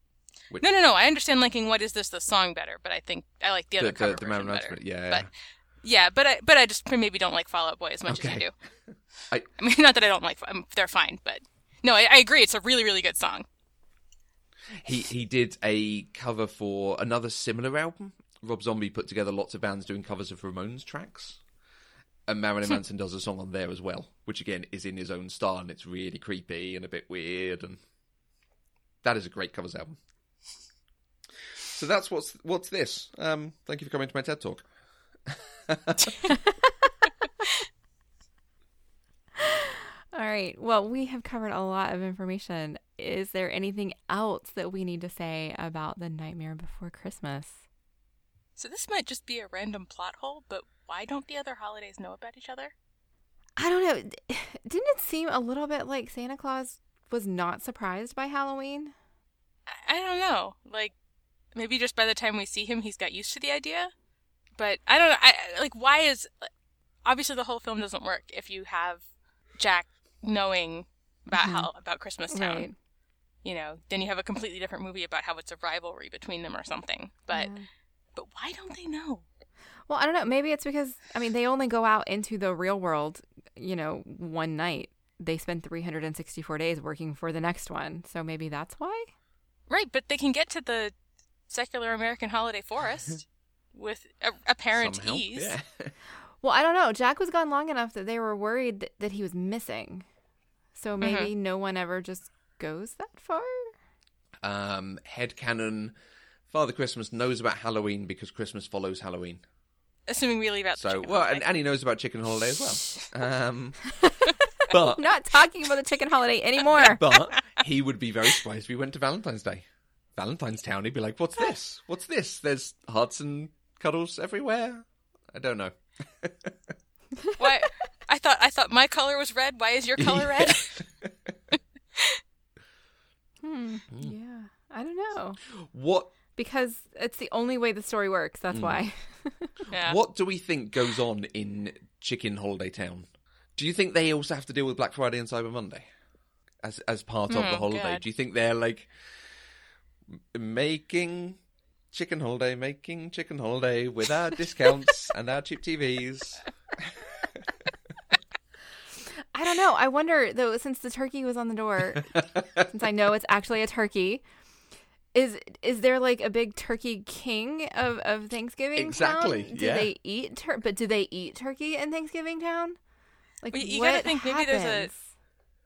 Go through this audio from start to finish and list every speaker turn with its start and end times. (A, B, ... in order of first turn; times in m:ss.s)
0:00.6-0:05.3 A
0:03.8-0:05.3 B
0:05.8-0:08.5 A
0:08.1-0:08.5 B
0:09.6-0:13.4 A
0:14.8-0:21.4 B
0:22.3-0:27.8 B
0:29.0-0:30.0 B
0:31.6-0:34.7 B
0:35.2-0:36.2 B
0:36.3-0:36.9 C
0:39.4-0:47.6 C
0:48.6-0:52.7 A
0:53.6-0:58.9 C
0:59.7-1:00.9 A
1:01.5-1:03.9 A
1:04.6-1:06.5 A
1:07.0-1:09.0 A
1:09.6-1:12.7 A
1:11.3-1:11.7 C
1:12.3-1:12.7 C
1:13.4-1:17.5 A
1:17.3-1:17.7 C
1:18.1-1:19.2 A
1:19.9-1:29.1 C
1:29.7-1:30.9 A
1:31.5-1:35.6 A
1:34.8-1:35.9 B
1:36.4-1:40.1 C
1:40.7-1:43.7 C
1:41.0-1:41.3 A
1:44.4-1:45.9 B
1:46.5-1:49.4 B
1:50.1-1:51.4 A
1:50.8-1:53.9 B
1:53.9-1:57.0 C
1:54.7-1:55.1 B
1:56.7-2:06.6 B
2:07.4-2:10.8 A
2:10.0-2:11.3 B
2:13.4-2:15.4 C
2:15.5-2:16.1 B
2:16.4-2:19.6 C
2:18.5-2:18.8 B
2:19.7-2:20.0 A
2:19.7-2:25.8 B
2:26.6-2:29.2 B
2:27.3-2:28.0 A
2:30.1-2:31.4 B
2:31.9-2:37.7 B
2:39.3-2:44.2 C
2:42.1-2:42.6 B
2:45.1-2:52.8 C
2:48.8-2:49.9 B
2:53.4-2:55.1 C
2:53.5-2:54.9 A